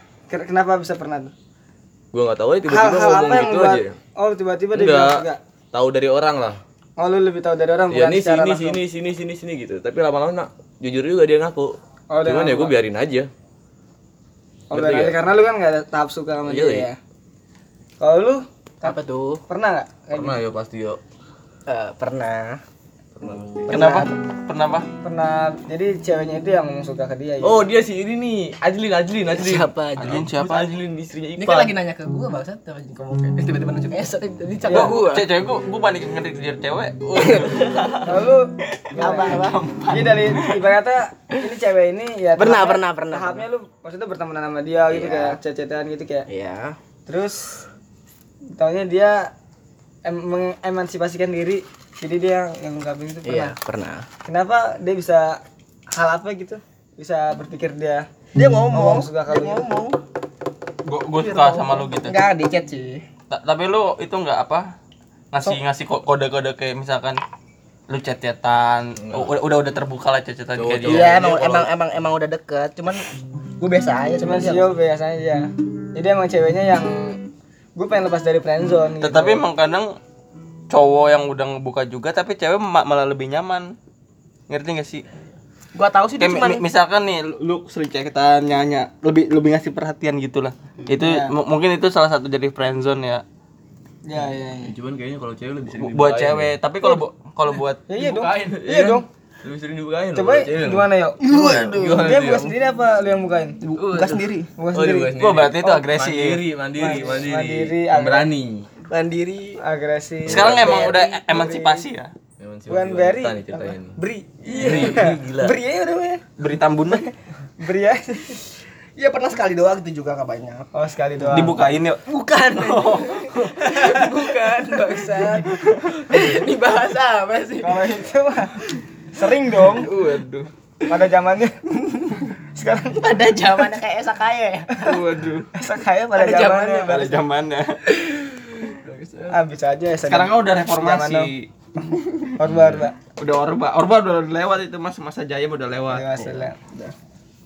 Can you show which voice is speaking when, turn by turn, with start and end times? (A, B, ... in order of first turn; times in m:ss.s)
0:00.3-0:01.3 A
0:02.1-0:04.0 B
0:02.7-0:05.4 A
0:04.7-0:06.6 B
0:07.0-0:08.8 A
0:07.9-0:13.3 B
0:12.1-0:12.7 A
0:14.7-0:15.2 B
0:14.7-0:17.0 A
0:16.4-0:16.9 B
0:18.0-0:19.0 A
0:18.8-0:19.4 C
0:19.5-0:20.4 A
0:20.1-0:21.0 B
0:21.7-0:22.6 C
0:23.2-0:23.8 B
0:23.7-0:24.1 C
0:23.7-0:24.9 D
0:25.0-0:27.6 A
0:27.4-0:31.8 B
0:29.3-0:30.2 C
0:30.0-0:30.8 D
0:31.4-0:35.3 C
0:34.6-0:34.9 A
0:34.7-0:38.0 D
0:37.2-0:38.1 C
0:38.0-0:46.2 A
0:38.7-0:40.6 D
0:38.9-0:39.6 C
0:42.4-0:43.4 C
0:44.9-0:45.4 C
0:46.3-0:46.8 C
0:47.1-0:47.6 A
0:48.5-0:49.3 A
0:50.0-0:53.5 A
0:53.2-0:54.0 C
0:54.2-0:55.4 A
0:55.9-0:58.1 A
0:58.3-1:00.0 C
0:58.7-0:59.6 A
1:00.8-1:02.2 D
1:01.2-1:03.0 C
1:03.3-1:04.7 D
1:05.3-1:07.2 D
1:07.9-1:11.2 D
1:09.0-1:09.3 B
1:10.5-1:11.7 B
1:10.9-1:13.1 C
1:13.6-1:14.7 C
1:14.2-1:17.2 A
1:17.8-1:19.4 A
1:19.0-1:20.0 D
1:20.7-1:23.8 D
1:24.5-1:25.0 D
1:25.7-1:26.6 C
1:26.2-1:33.2 D
1:31.0-1:31.3 A
1:34.0-1:34.7 A
1:34.6-1:36.5 B
1:35.8-1:38.4 D
1:37.9-1:39.1 A
1:38.0-1:38.4 C
1:38.4-1:42.5 B
1:40.1-1:41.2 A
1:41.2-1:42.1 C
1:42.0-1:43.6 A
1:43.6-1:44.5 C
1:43.9-1:44.2 D
1:44.6-1:45.1 A
1:44.7-1:48.7 B
1:45.2-1:46.4 D
1:46.7-1:48.3 A
1:48.9-1:49.6 C
1:49.6-1:51.8 A
1:50.2-1:50.9 B
1:50.3-1:52.1 D
1:52.4-1:54.0 B
1:52.7-1:56.2 A
1:54.4-1:55.1 C
1:54.6-1:55.6 B
1:56.4-1:57.0 D
1:56.9-1:58.4 A
1:59.0-2:00.7 C
2:00.7-2:01.6 A
2:01.3-2:02.0 D
2:02.1-2:08.0 C
2:02.5-2:05.9 D
2:07.6-2:09.9 A
2:09.6-2:10.5 D
2:10.9-2:11.6 A
2:11.9-2:12.2 C
2:12.5-2:13.2 A
2:12.9-2:14.8 C
2:14.8-2:15.5 D
2:15.5-2:17.1 A
2:16.2-2:17.2 C
2:16.9-2:18.0 D
2:18.7-2:19.4 C
2:19.3-2:21.3 A
2:20.1-2:21.5 D
2:22.0-2:22.2 C
2:22.4-2:23.0 A
2:22.4-2:22.8 B
2:23.2-2:26.0 D
2:25.9-2:26.6 A
2:26.2-2:26.9 C